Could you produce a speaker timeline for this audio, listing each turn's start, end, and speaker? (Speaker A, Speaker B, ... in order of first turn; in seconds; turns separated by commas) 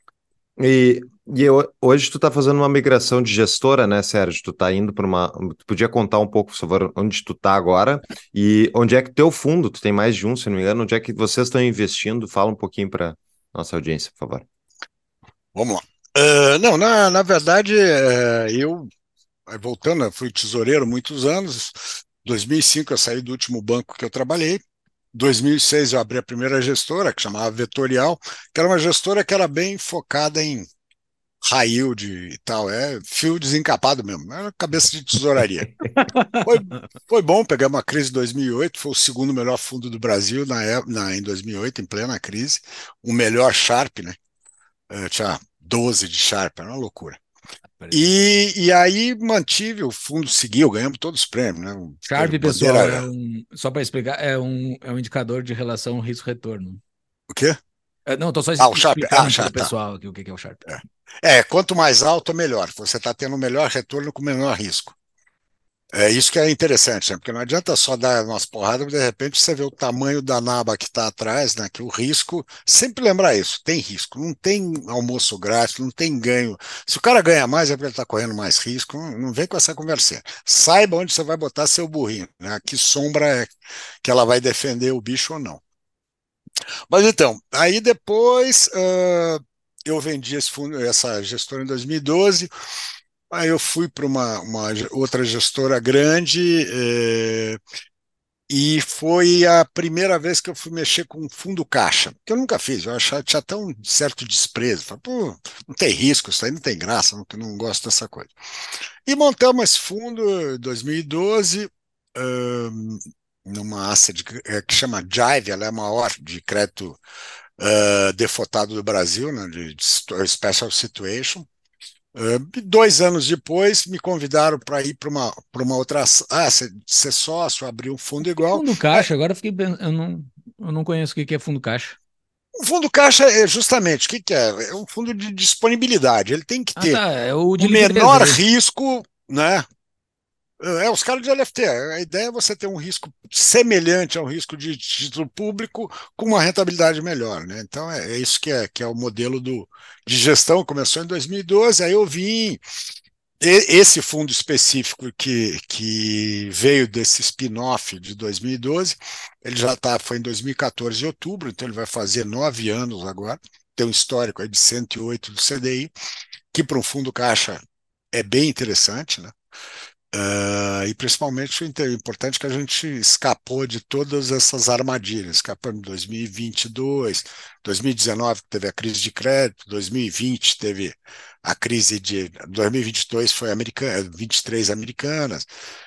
Speaker A: 0.6-14.4, Speaker B: 15.5-18.9, Speaker B: 19.5-24.6, Speaker B: 25.1-30.7, Speaker B: 31.4-35.9, Speaker C: 36.1-36.4, Speaker B: 36.4-44.2, Speaker B: 44.9-47.2, Speaker C: 47.8-48.1, Speaker B: 47.9-53.0, Speaker C: 52.0-56.8, Speaker B: 57.3-57.6, Speaker C: 58.1-60.6, Speaker B: 58.6-59.7, Speaker B: 60.7-64.9, Speaker B: 65.9-83.5, Speaker B: 84.0-85.6, Speaker B: 86.9-92.5, Speaker B: 93.3-97.6, Speaker B: 98.5-108.3, Speaker B: 109.0-117.0, Speaker B: 117.6-121.5, Speaker B: 122.1-129.1, Speaker C: 128.3-132.0, Speaker B: 132.6-137.0, Speaker C: 136.8-138.4, Speaker B: 137.6-139.7, Speaker B: 140.6-152.6, Speaker B: 153.4-165.9, Speaker B: 166.5-167.6, Speaker B: 168.1-169.3, Speaker B: 170.1-185.5